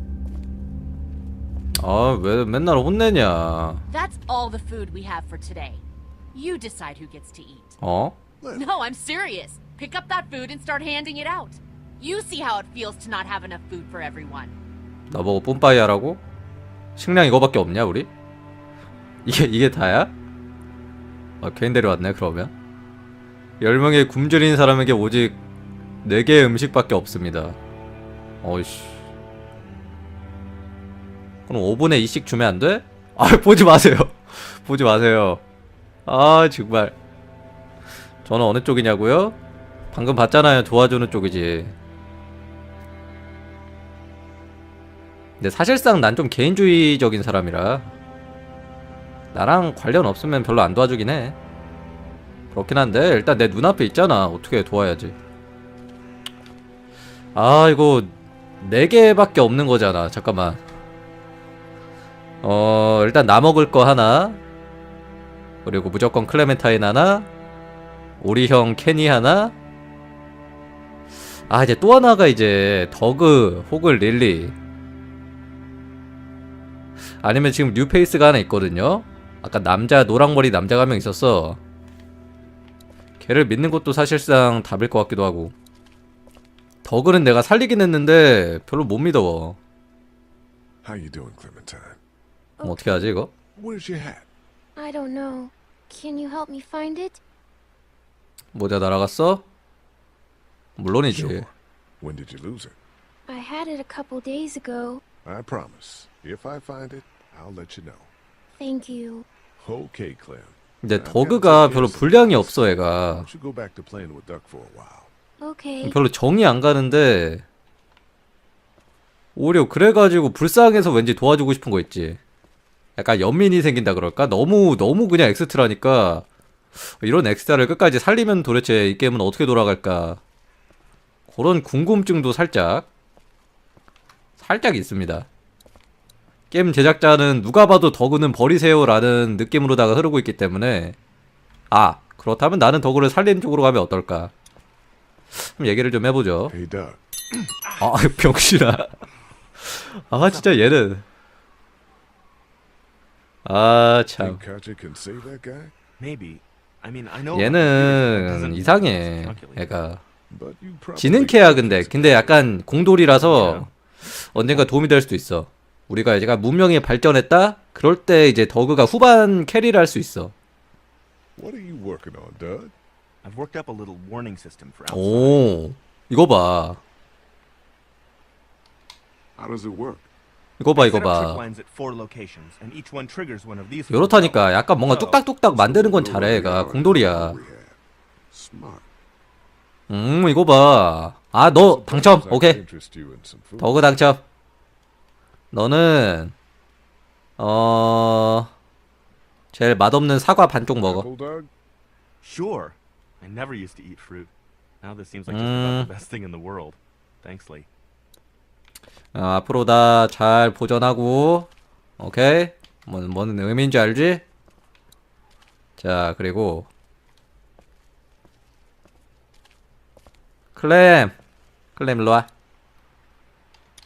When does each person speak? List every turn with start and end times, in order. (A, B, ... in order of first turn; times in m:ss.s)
0:01.8-0:03.8 A
0:03.9-0:07.8 B
0:07.8-0:08.2 A
0:08.4-0:08.6 C
0:08.5-0:14.5 B
0:15.1-0:16.2 A
0:17.0-0:18.1 A
0:19.2-0:20.1 A
0:21.4-0:22.5 A
0:23.6-0:25.4 A
0:26.0-0:27.6 A
0:28.4-0:29.0 A
0:31.5-0:35.4 A
0:36.0-0:37.0 A
0:38.2-0:39.4 A
0:39.9-0:41.7 A
0:45.4-0:47.9 A
0:49.3-0:51.4 A
0:52.5-0:55.1 A
0:57.3-1:00.6 A
1:02.4-1:04.4 A
1:05.6-1:07.3 A
1:08.2-1:09.5 A
1:11.5-1:14.5 A
1:17.2-1:21.6 A
1:23.2-1:25.5 A
1:26.8-1:29.6 A
1:30.8-1:32.0 C
1:32.6-1:33.1 D
1:32.6-1:33.3 A
1:33.5-1:34.3 C
1:34.8-1:37.2 D
1:38.5-1:39.4 A
1:40.8-1:41.5 A
1:41.0-1:42.8 C
1:43.3-1:45.0 D
1:45.2-1:48.1 C
1:48.6-1:49.2 D
1:49.6-1:55.1 C
1:50.8-1:53.3 A
1:55.4-1:56.0 D
1:55.8-1:57.4 A
1:59.4-2:02.2 A
2:03.0-2:06.2 A
2:06.8-2:10.2 A
2:11.3-2:12.8 A
2:14.4-2:15.2 A
2:16.5-2:20.9 A
2:21.7-2:24.3 A
2:25.4-2:26.5 A
2:26.5-2:27.0 C
2:27.8-2:28.9 A
2:29.6-2:31.0 A
2:33.4-2:34.4 A
2:34.2-2:35.7 C
2:36.0-2:39.8 E
2:37.3-2:40.0 A
2:40.3-2:42.6 C
2:41.0-2:50.3 A
2:43.1-2:43.7 E
2:51.4-2:52.7 C
2:53.2-2:55.5 E
2:54.9-2:56.8 A
2:59.4-3:00.1 C
3:00.6-3:01.4 A
3:00.7-3:05.1 E
3:03.9-3:07.4 A
3:05.0-3:07.8 C
3:08.3-3:08.9 C
3:09.9-3:12.6 A
3:11.5-3:14.0 C
3:13.6-3:14.2 A
3:15.5-3:16.3 A
3:17.4-3:18.5 A
3:19.5-3:21.1 A
3:20.7-3:21.5 C
3:22.2-3:27.7 E
3:25.3-3:25.9 A
3:29.1-3:31.5 A
3:32.0-3:34.2 A
3:35.8-3:36.7 A
3:40.6-3:41.1 A
3:41.8-3:42.3 A